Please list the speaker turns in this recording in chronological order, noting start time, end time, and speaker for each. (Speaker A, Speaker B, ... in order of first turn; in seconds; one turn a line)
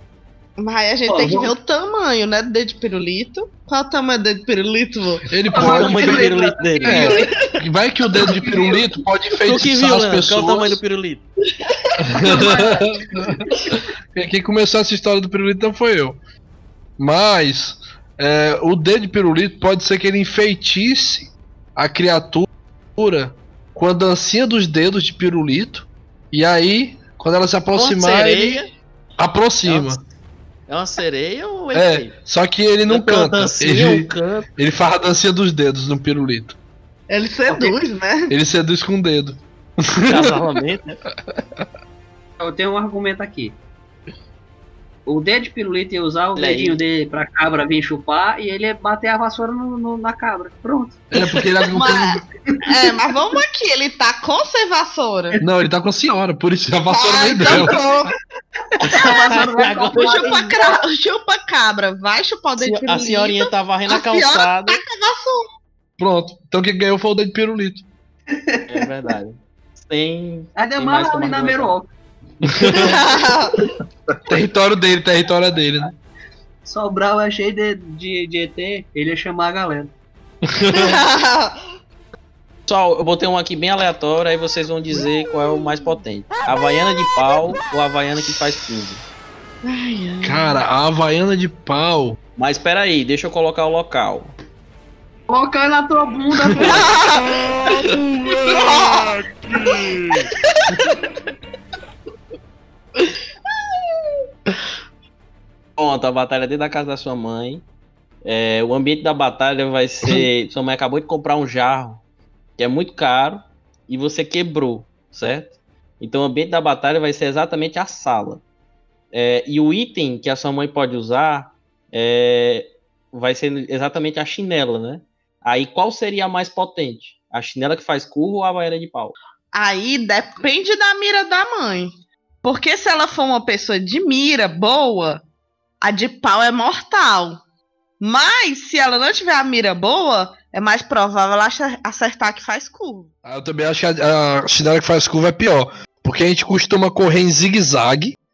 Speaker A: 0.6-5.2
Speaker B: 1.1-1.5
Speaker C: 5.3-6.3
Speaker B: 5.5-7.5
Speaker D: 5.5-7.2
Speaker C: 6.8-10.8
Speaker A: 7.2-7.5
Speaker B: 8.2-9.0
Speaker D: 9.4-11.2
Speaker A: 11.6-12.0
Speaker C: 12.0-16.2
Speaker B: 12.2-13.7
Speaker C: 17.0-28.6
Speaker D: 27.7-28.7
Speaker C: 29.2-30.0
Speaker D: 29.6-29.9
Speaker D: 30.7-32.1
Speaker C: 31.7-36.5
Speaker D: 32.9-34.5
Speaker A: 37.1-38.3
Speaker B: 37.5-37.7
Speaker C: 38.3-40.4
Speaker D: 40.1-41.0
Speaker C: 41.3-41.6
Speaker B: 42.4-43.6
Speaker B: 45.0-51.9
Speaker D: 46.4-46.8
Speaker C: 51.1-52.2
Speaker A: 51.7-55.4
Speaker B: 52.5-52.9
Speaker C: 55.4-57.9
Speaker A: 56.9-58.1
Speaker B: 58.8-60.8
Speaker D: 58.8-60.5
Speaker A: 59.9-65.5
Speaker D: 62.6-64.8
Speaker C: 66.0-67.8
Speaker B: 68.3-68.8
Speaker D: 68.7-71.7
Speaker B: 70.5-71.9
Speaker C: 72.4-72.9
Speaker B: 72.5-73.1
Speaker A: 72.6-73.6
Speaker C: 74.3-75.9
Speaker B: 76.6-79.9
Speaker C: 80.5-81.0
Speaker A: 80.7-81.6
Speaker D: 82.7-89.0
Speaker A: 89.6-90.6
Speaker C: 90.2-92.2
Speaker D: 92.4-94.3
Speaker B: 95.3-97.0
Speaker A: 96.6-97.8
Speaker C: 97.8-100.3
Speaker A: 98.3-99.2
Speaker A: 100.5-101.0
Speaker D: 105.8-107.6
Speaker D: 108.2-112.0
Speaker D: 112.6-118.4
Speaker D: 119.1-129.1
Speaker A: 129.5-131.9
Speaker A: 132.4-135.2
Speaker A: 135.8-137.4
Speaker A: 138.0-143.1
Speaker C: 143.2-148.2